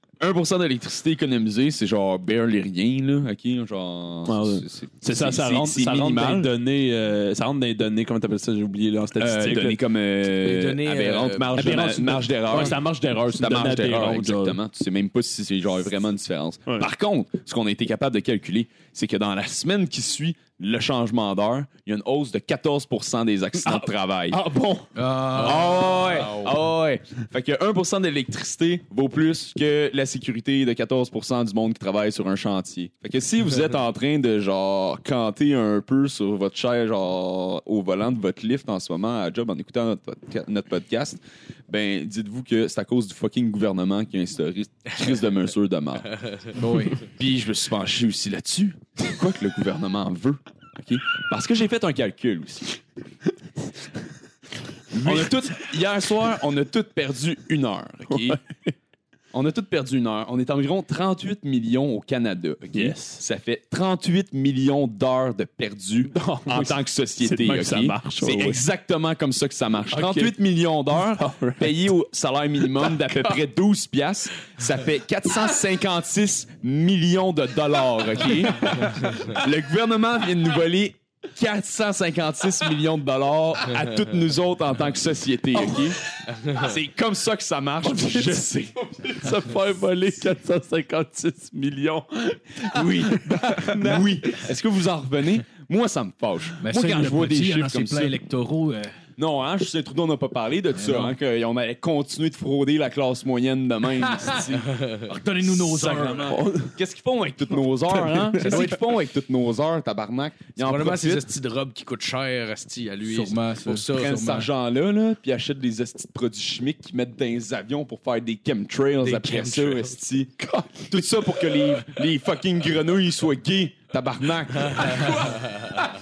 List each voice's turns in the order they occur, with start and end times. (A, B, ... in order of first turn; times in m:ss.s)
0:00.2-0:06.5 A
0:04.3-0:09.8 B
0:09.2-0:24.4 A
0:10.4-0:11.9 C
0:11.6-0:14.6 B
0:23.6-0:24.9 B
0:24.9-0:25.9 D
0:25.4-0:46.1 A
0:25.4-0:26.5 C
0:46.5-0:47.0 D
0:47.0-0:52.8 A
0:54.9-0:58.4 A
0:59.3-1:26.0 A
1:02.7-1:03.2 B
1:06.1-1:08.6 B
1:09.9-1:10.3 B
1:11.0-1:11.9 B
1:12.8-1:13.3 B
1:25.5-1:26.0 B
1:26.5-1:28.9 A
1:27.8-1:34.4 B
1:32.6-1:38.2 A
1:36.6-1:39.0 D
1:39.2-1:44.8 A
1:40.7-1:41.1 D
1:45.0-1:46.3 D
1:45.4-1:51.3 A
1:46.2-1:46.7 B
1:48.4-1:48.8 C
1:50.6-1:54.4 C
1:53.0-1:54.4 D
1:53.9-2:00.3 A
1:59.0-1:59.9 C
2:00.4-2:01.0 B
2:00.9-2:05.4 A
2:04.7-2:05.7 C